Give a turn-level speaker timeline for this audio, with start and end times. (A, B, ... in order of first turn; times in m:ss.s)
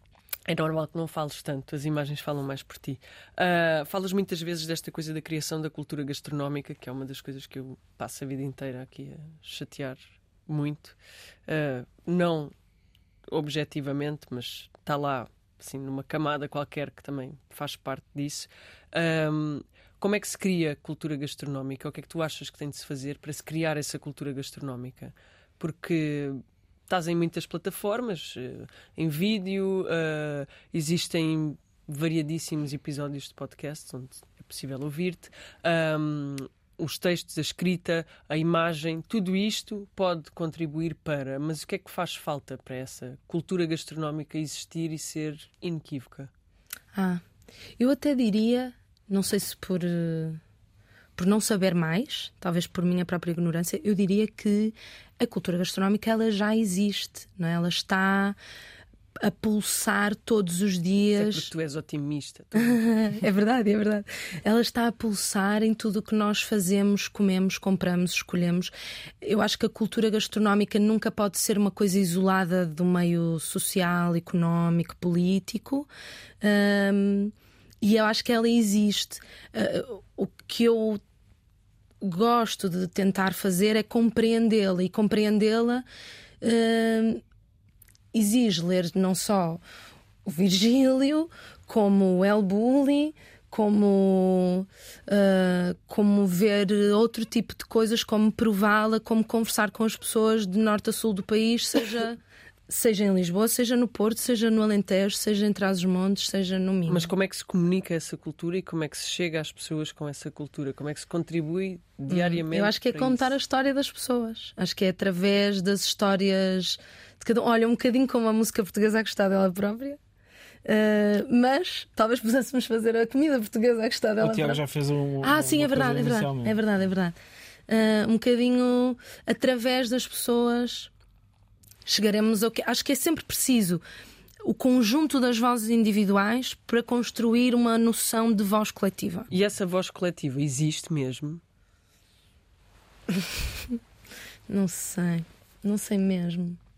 0:00.5-0:11.0 A
0:11.5-0:12.5 A
0:13.3-0:46.3 A
0:46.9-0:47.2 B
0:47.8-0:50.4 B
0:51.2-0:58.4 B
0:59.2-1:01.5 B
1:01.2-1:02.8 A
1:02.6-1:15.9 B
1:16.4-1:21.0 B
1:22.0-1:25.8 B
1:26.4-1:27.2 B
1:28.1-1:29.6 B
1:30.3-1:47.1 B
1:46.9-1:53.3 A
1:52.1-2:00.0 B
2:00.6-2:04.6 B
2:04.2-2:06.6 C
2:05.2-2:07.2 B
2:07.7-2:10.9 B
2:11.9-2:13.8 B
2:14.4-2:19.3 B
2:19.3-2:21.4 A
2:23.1-2:23.8 B
2:24.5-2:26.6 B